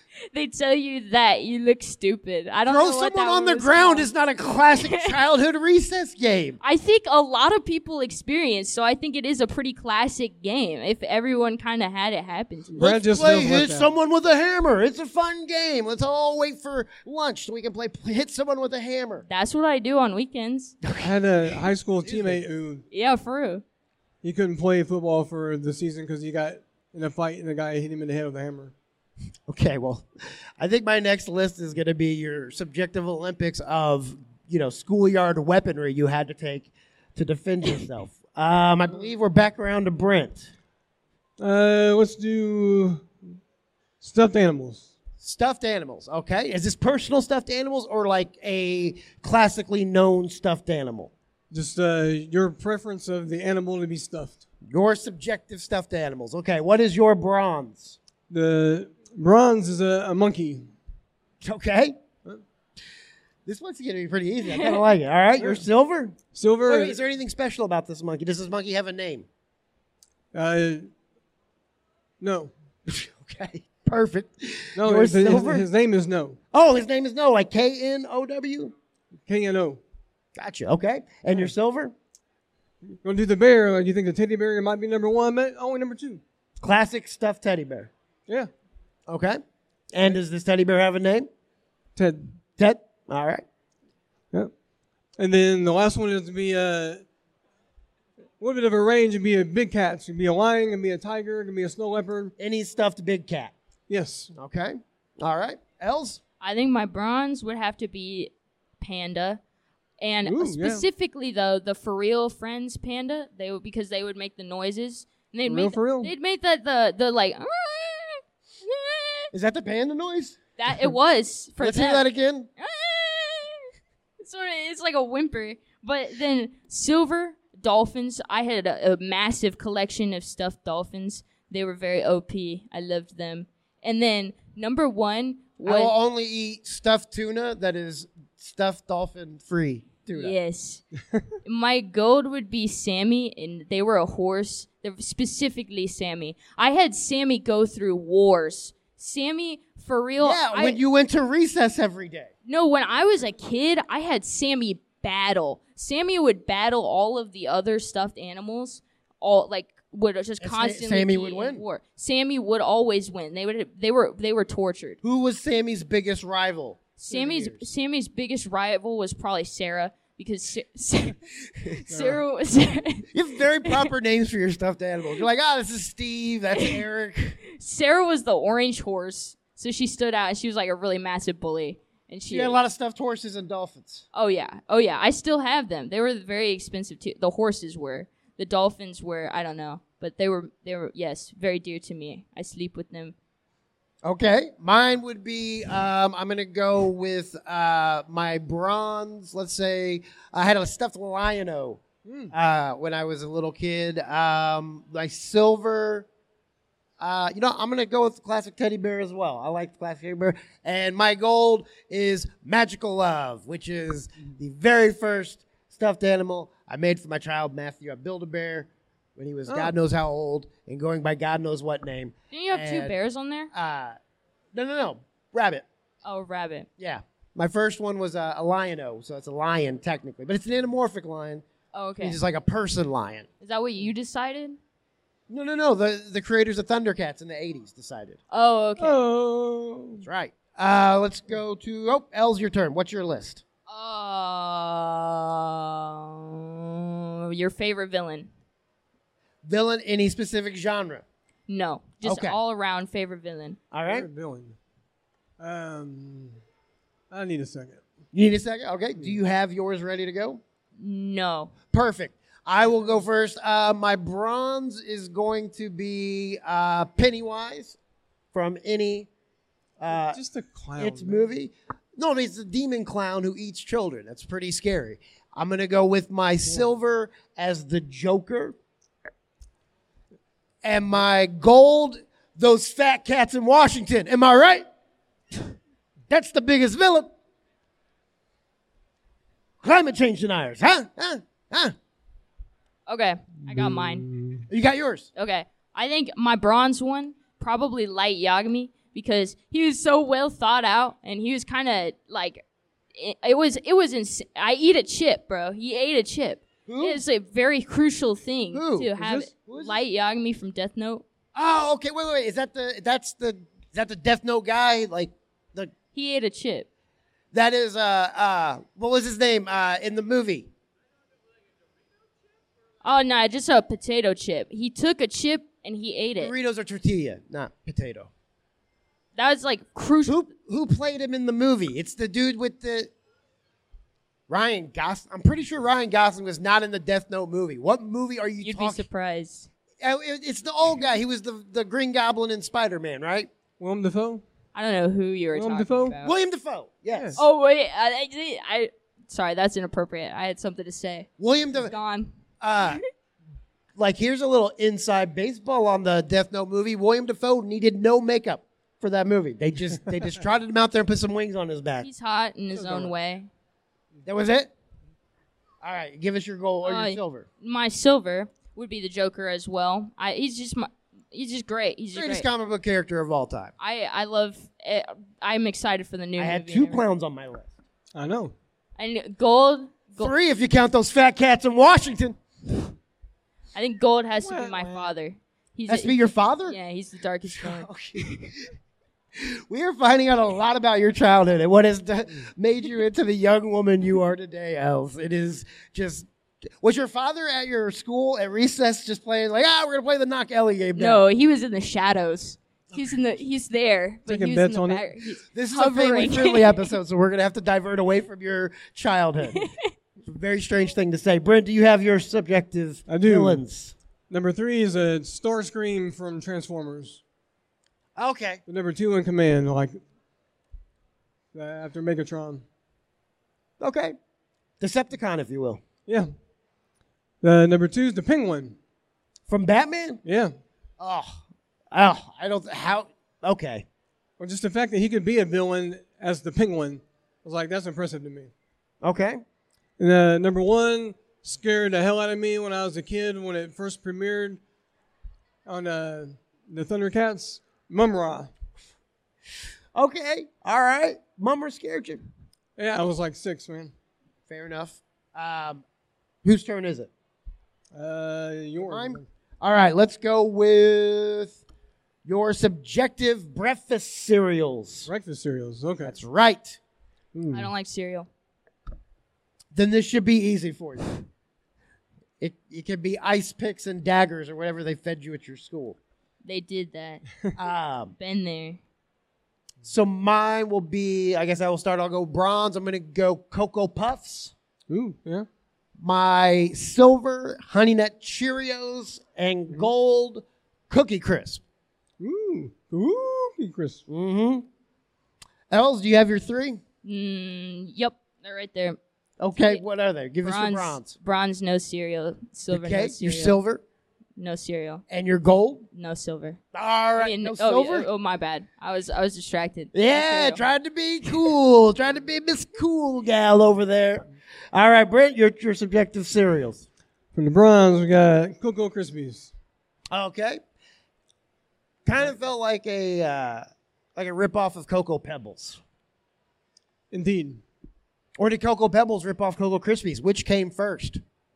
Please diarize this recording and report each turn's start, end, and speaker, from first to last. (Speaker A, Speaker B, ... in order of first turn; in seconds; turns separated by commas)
Speaker A: 0.3-4.1, Speaker B: 2.6-6.6, Speaker A: 4.8-5.1, Speaker A: 6.6-12.8, Speaker C: 12.7-13.9, Speaker B: 12.8-19.2, Speaker A: 19.2-20.8, Speaker B: 20.8-22.4, Speaker C: 21.0-22.8, Speaker A: 22.9-23.6, Speaker C: 24.2-28.7, Speaker B: 29.5-30.1, Speaker B: 30.6-40.5, Speaker C: 41.4-43.1, Speaker C: 44.0-44.9, Speaker B: 45.2-51.1, Speaker C: 51.5-54.4, Speaker B: 54.7-58.0, Speaker C: 58.3-60.7, Speaker B: 61.4-62.0, Speaker B: 63.5-69.2, Speaker A: 64.4-64.8, Speaker C: 65.4-65.6, Speaker C: 66.3-67.0, Speaker C: 70.3-70.9, Speaker C: 72.2-72.5, Speaker B: 72.9-75.7, Speaker C: 74.8-76.4, Speaker B: 76.5-78.7, Speaker C: 79.2-79.8, Speaker B: 80.3-81.9, Speaker C: 83.0-86.2, Speaker B: 86.6-87.9, Speaker B: 89.1-89.4, Speaker B: 89.9-91.3, Speaker C: 92.0-92.4, Speaker B: 92.6-93.4, Speaker C: 95.2-97.0, Speaker C: 98.4-102.3, Speaker B: 102.4-103.5, Speaker C: 103.9-104.3, Speaker B: 104.3-106.2, Speaker A: 106.4-109.4, Speaker A: 110.0-119.3, Speaker C: 110.2-110.8, Speaker C: 115.5-116.1, Speaker B: 119.3-120.4, Speaker A: 120.6-123.7, Speaker B: 121.6-122.5, Speaker A: 124.2-135.9, Speaker B: 135.6-140.3, Speaker A: 140.1-140.8, Speaker A: 141.4-150.8, Speaker B: 150.2-152.3, Speaker A: 152.4-165.0, Speaker B: 160.4-161.6, Speaker B: 165.0-167.7, Speaker A: 167.0-173.1, Speaker C: 171.9-172.2, Speaker B: 173.1-177.4, Speaker A: 173.6-173.9, Speaker A: 177.5-182.6, Speaker B: 182.3-184.0, Speaker A: 184.1-193.1, Speaker B: 194.0-206.1, Speaker C: 202.0-202.3, Speaker B: 207.0-222.9, Speaker C: 219.5-219.7, Speaker A: 222.3-223.5, Speaker B: 223.5-223.9, Speaker B: 224.5-225.6, Speaker A: 226.0-226.7, Speaker B: 226.8-231.4, Speaker A: 231.7-232.2, Speaker B: 232.0-233.3, Speaker A: 233.4-234.6, Speaker B: 235.3-238.2, Speaker A: 238.3-239.0, Speaker C: 238.8-240.1, Speaker B: 240.0-243.4, Speaker A: 243.7-248.3, Speaker B: 249.4-251.0, Speaker A: 251.5-253.6, Speaker B: 252.0-252.4, Speaker B: 253.7-254.1, Speaker C: 253.8-254.5, Speaker C: 255.4-256.4, Speaker C: 257.1-257.8, Speaker B: 258.1-260.4, Speaker A: 260.8-261.5, Speaker B: 261.7-267.8, Speaker B: 268.3-269.1, Speaker B: 269.8-270.2, Speaker C: 269.9-271.3, Speaker B: 270.8-278.6, Speaker B: 280.6-284.6, Speaker B: 286.1-287.1, Speaker B: 289.6-291.7, Speaker A: 292.9-294.1, Speaker C: 293.5-294.4, Speaker B: 294.5-295.1, Speaker A: 295.1-302.4, Speaker A: 302.9-311.0, Speaker B: 306.7-307.0, Speaker B: 308.5-309.8, Speaker B: 311.3-315.7, Speaker A: 315.9-316.7, Speaker B: 317.3-320.5, Speaker A: 322.8-326.3, Speaker B: 326.2-328.1, Speaker A: 329.1-330.3, Speaker B: 330.0-332.9, Speaker B: 334.3-338.9, Speaker A: 338.4-339.5, Speaker B: 339.8-343.3, Speaker C: 343.6-344.2, Speaker A: 344.5-346.1, Speaker C: 345.3-346.0, Speaker B: 346.0-347.2, Speaker C: 346.9-347.2, Speaker A: 347.1-352.8, Speaker B: 351.2-351.7, Speaker B: 352.4-352.8, Speaker B: 353.8-361.9, Speaker A: 361.8-363.3, Speaker C: 362.5-362.9, Speaker B: 364.0-364.5, Speaker B: 365.6-367.2, Speaker A: 366.6-372.3, Speaker B: 371.9-373.5, Speaker A: 373.6-376.8, Speaker B: 376.2-377.5, Speaker C: 377.9-378.3, Speaker A: 378.8-380.1, Speaker B: 380.0-382.2, Speaker A: 383.5-388.2, Speaker C: 384.2-384.9, Speaker B: 385.7-386.6, Speaker B: 387.2-388.5, Speaker B: 389.2-401.0, Speaker A: 400.8-406.7, Speaker C: 404.1-404.9, Speaker B: 405.3-409.4, Speaker A: 409.3-409.7, Speaker B: 410.0-413.7, Speaker C: 412.9-413.4, Speaker C: 414.1-417.0, Speaker B: 418.0-418.4, Speaker C: 418.5-419.8, Speaker C: 421.3-422.4, Speaker B: 423.6-423.9, Speaker B: 424.6-425.6, Speaker C: 427.2-428.6, Speaker B: 429.3-430.0, Speaker C: 430.0-430.3, Speaker B: 430.8-433.6, Speaker C: 434.2-438.3, Speaker B: 438.8-439.2, Speaker C: 439.8-444.4, Speaker C: 445.4-448.3, Speaker B: 449.7-452.0, Speaker C: 452.6-453.7, Speaker B: 454.3-455.6, Speaker B: 456.2-456.9, Speaker C: 457.7-459.1, Speaker B: 458.6-461.4, Speaker B: 462.0-464.9, Speaker C: 464.9-465.9, Speaker B: 465.9-466.6, Speaker C: 467.1-467.5, Speaker A: 467.3-468.1, Speaker B: 469.5-471.0, Speaker B: 472.2-475.8, Speaker A: 476.2-477.0, Speaker B: 477.4-477.9, Speaker A: 478.0-478.6, Speaker B: 479.6-484.3, Speaker C: 484.7-485.2, Speaker B: 485.8-491.4, Speaker C: 492.0-493.8, Speaker B: 493.9-494.4, Speaker B: 495.5-496.6, Speaker A: 496.8-498.8, Speaker B: 499.2-500.9, Speaker A: 500.2-503.4, Speaker B: 502.5-503.6, Speaker A: 504.2-504.8, Speaker B: 504.9-505.6, Speaker A: 505.7-506.4, Speaker B: 506.5-507.9, Speaker A: 506.9-510.4, Speaker B: 509.7-516.6, Speaker C: 517.1-519.3, Speaker B: 519.9-520.4, Speaker B: 521.9-525.6, Speaker C: 526.9-527.4, Speaker B: 528.2-531.0